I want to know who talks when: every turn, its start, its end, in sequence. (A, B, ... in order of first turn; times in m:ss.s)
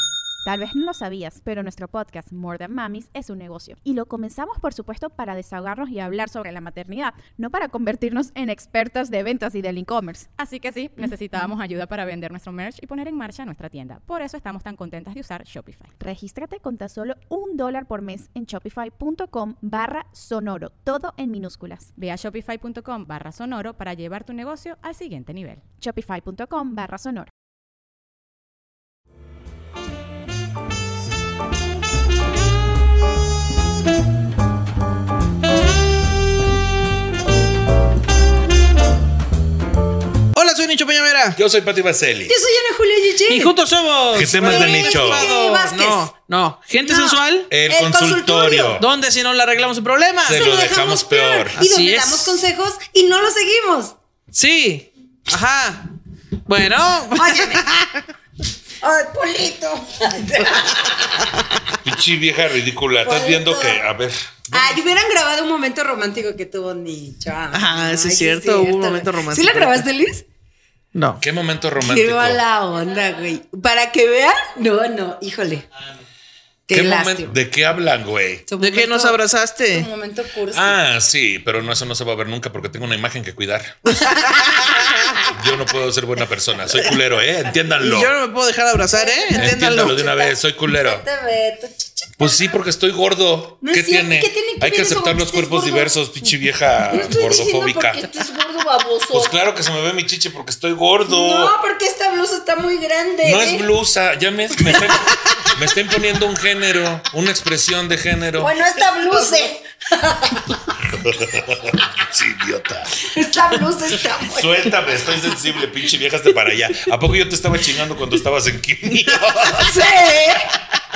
0:00.4-0:10.3 A
0:10.4-0:15.9 B
0:16.0-0:21.9 A
0:22.0-0:25.6 B
0:25.8-0:27.3 A
0:40.3-0:41.4 C
0:41.4-0:42.3 D
0:42.3-0:43.5 E
0:43.3-0:47.5 C
0:44.1-0:45.3 D
0:44.4-0:46.1 E
0:46.8-0:48.8 E
0:47.5-0:48.8 D
0:48.8-0:50.4 C
0:50.2-0:51.6 D
0:50.3-0:53.9 E
0:51.6-0:52.4 C
0:54.3-0:55.9 C
0:56.5-0:58.0 C
0:57.1-0:57.7 E
0:58.8-1:01.4 E
1:01.8-1:04.8 D
1:03.0-1:03.8 E
1:04.5-1:10.2 E
1:07.5-1:09.8 C
1:10.9-1:11.2 C
1:11.2-1:12.4 D
1:11.8-1:15.6 E
1:16.7-1:17.4 E
1:16.7-1:18.4 D
1:18.5-1:19.2 E
1:18.6-1:19.9 C
1:19.7-1:20.8 E
1:20.5-1:23.8 D
1:24.0-1:25.3 E
1:25.2-1:28.1 D
1:27.8-1:30.0 C
1:28.9-1:32.5 E
1:29.3-1:31.0 D
1:32.2-1:38.0 D
1:33.6-1:35.9 E
1:36.9-1:39.3 E
1:39.1-1:41.5 D
1:41.1-1:43.7 E
1:43.2-1:48.6 D
1:48.4-1:50.6 E
1:50.9-1:52.9 D
1:53.0-1:54.7 E
1:54.2-1:59.8 D
1:59.5-2:00.5 E